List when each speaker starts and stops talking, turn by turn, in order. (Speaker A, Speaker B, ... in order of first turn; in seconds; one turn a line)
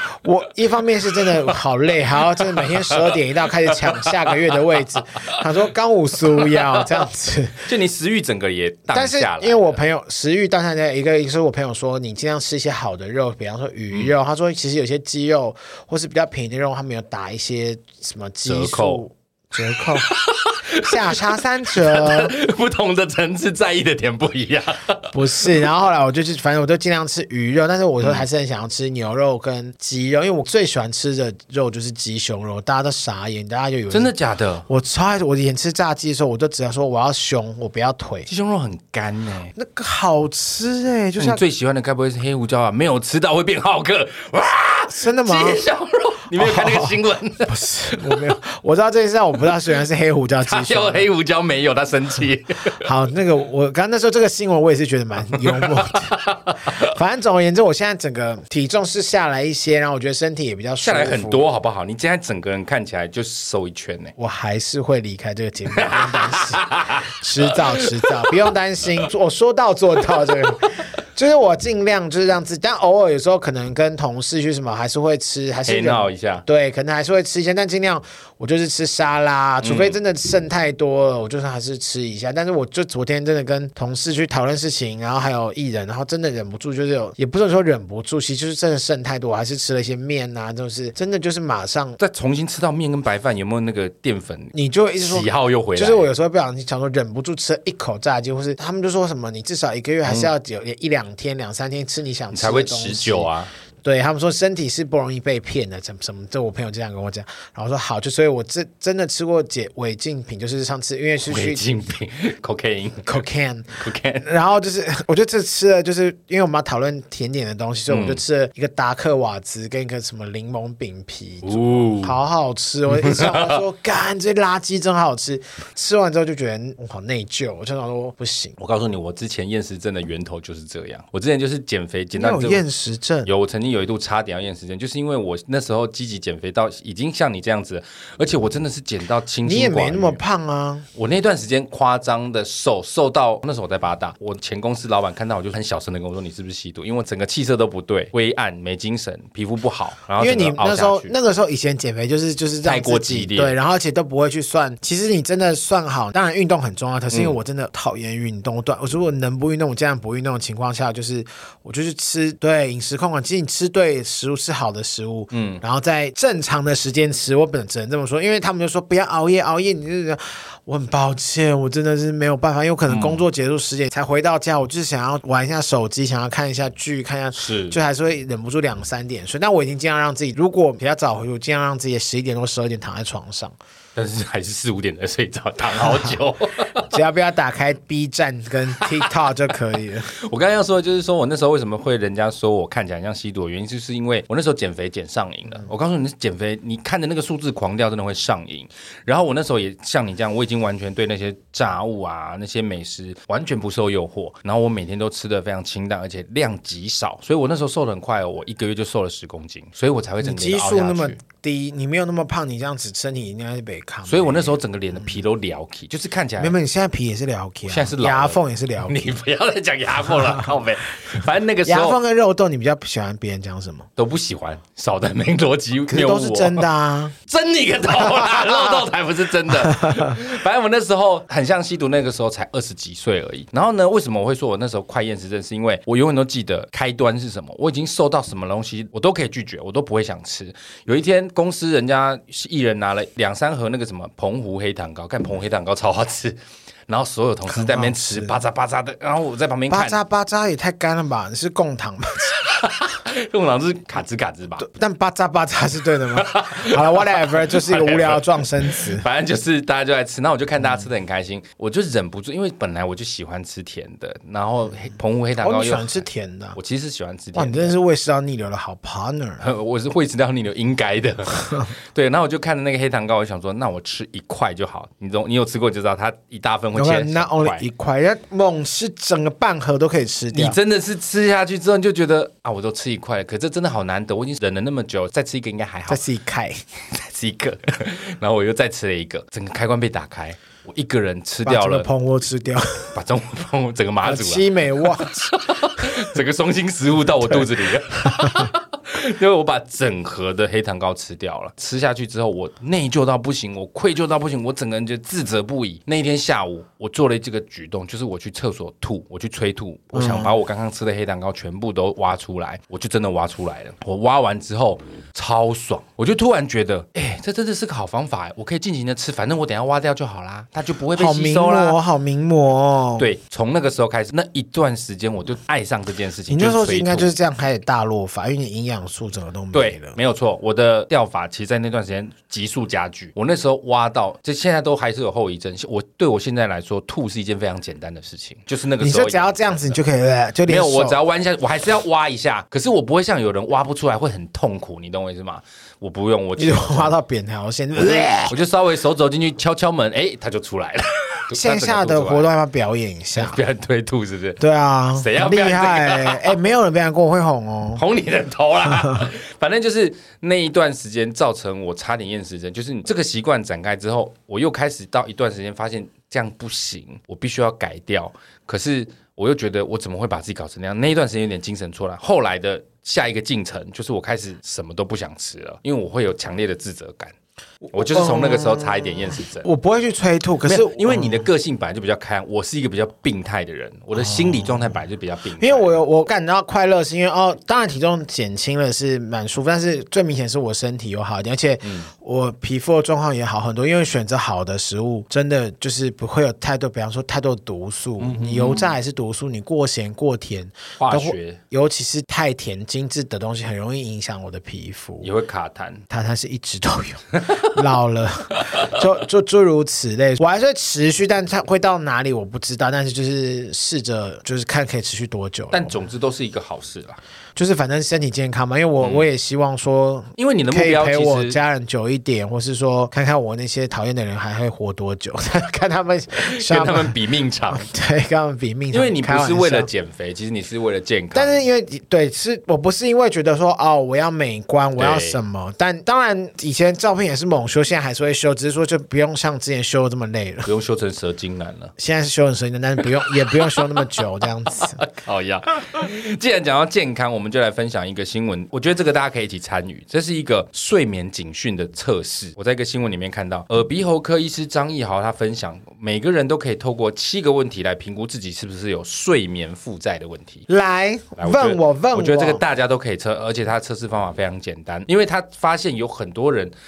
Speaker A: 0.2-7.7
Speaker B: 1.1-1.6
Speaker B: 2.2-4.9
Speaker B: 6.3-7.1
Speaker B: 7.7-9.8
Speaker A: 8.9-20.1
Speaker B: 18.5-19.0
Speaker B: 19.8-25.6
Speaker A: 20.8-22.3
Speaker A: 25.1-34.1
Speaker B: 33.9-34.7
Speaker A: 34.7-38.3
Speaker B: 38.3-39.5
Speaker A: 39.5-41.4
Speaker B: 41.2-48.3
Speaker A: 44.9-45.6
Speaker A: 46.4-51.1
Speaker B: 50.5-52.9
Speaker A: 52.8-61.5
Speaker B: 55.3-56.9
Speaker B: 60.8-64.2
Speaker A: 64.2-92.0
Speaker B: 65.8-68.3
Speaker B: 75.7-76.4
Speaker B: 79.6-80.0
Speaker B: 92.0-96.1
Speaker A: 94.5-103.3
Speaker B: 100.1-100.3
Speaker B: 102.3-103.5
Speaker A: 103.8-111.6
Speaker B: 111.2-113.2
Speaker A: 113.0-128.6
Speaker B: 113.8-114.3
Speaker B: 117.9-118.2
Speaker B: 121.4-122.2
Speaker B: 122.9-123.6
Speaker B: 128.6-132.6
Speaker A: 132.2-133.3
Speaker B: 133.2-140.2
Speaker A: 139.4-140.9
Speaker B: 140.9-151.1
Speaker A: 150.2-183.6
Speaker B: 152.6-153.6
Speaker B: 165.3-165.6
Speaker B: 172.9-173.2
Speaker B: 177.3-177.8
Speaker B: 183.9-186.9
Speaker A: 186.9-190.1
Speaker B: 188.8-189.1
Speaker B: 190.1-211.2
Speaker A: 210.2-214.6
Speaker B: 214.1-216.6
Speaker A: 216.4-219.0
Speaker B: 217.7-222.0
Speaker A: 221.7-223.9
Speaker B: 224.0-226.7
Speaker A: 225.9-227.2
Speaker B: 227.3-250.0
Speaker A: 228.0-228.8
Speaker A: 229.7-230.2
Speaker A: 247.5-248.4
Speaker A: 249.7-252.4
Speaker B: 252.3-254.7
Speaker A: 254.6-259.1
Speaker B: 256.1-267.8
Speaker A: 265.4-266.6
Speaker A: 267.3-269.4
Speaker B: 269.4-277.6
Speaker A: 276.8-280.6
Speaker B: 280.3-286.0
Speaker A: 285.9-286.6
Speaker B: 286.9-291.9
Speaker A: 291.4-292.9
Speaker B: 292.9-321.8
Speaker A: 294.0-295.8
Speaker A: 298.1-298.4
Speaker A: 309.9-310.3
Speaker A: 320.9-323.1
Speaker B: 323.0-327.1
Speaker A: 326.3-330.0
Speaker B: 329.5-339.8
Speaker A: 338.8-341.0
Speaker B: 340.5-346.9
Speaker A: 346.4-348.4
Speaker B: 347.8-352.3
Speaker A: 351.3-353.4
Speaker B: 353.1-354.4
Speaker A: 354.4-357.8
Speaker B: 355.0-356.4
Speaker B: 357.8-377.1
Speaker A: 377.6-381.3
Speaker B: 377.7-379.5
Speaker B: 380.4-385.8
Speaker A: 383.9-384.8
Speaker A: 385.4-405.1
Speaker B: 391.6-391.9
Speaker B: 398.0-398.8
Speaker B: 400.8-401.4
Speaker B: 405.0-405.8
Speaker A: 405.9-415.8
Speaker B: 415.5-417.0
Speaker A: 417.4-427.0
Speaker B: 418.8-419.1
Speaker B: 420.2-421.4
Speaker B: 426.2-427.7
Speaker A: 427.5-429.7
Speaker B: 428.7-431.4
Speaker A: 431.1-440.5
Speaker B: 434.8-435.2
Speaker B: 440.5-441.7
Speaker A: 441.8-444.8
Speaker B: 443.2-443.8
Speaker B: 444.6-460.4
Speaker A: 460.5-462.4
Speaker B: 461.2-466.5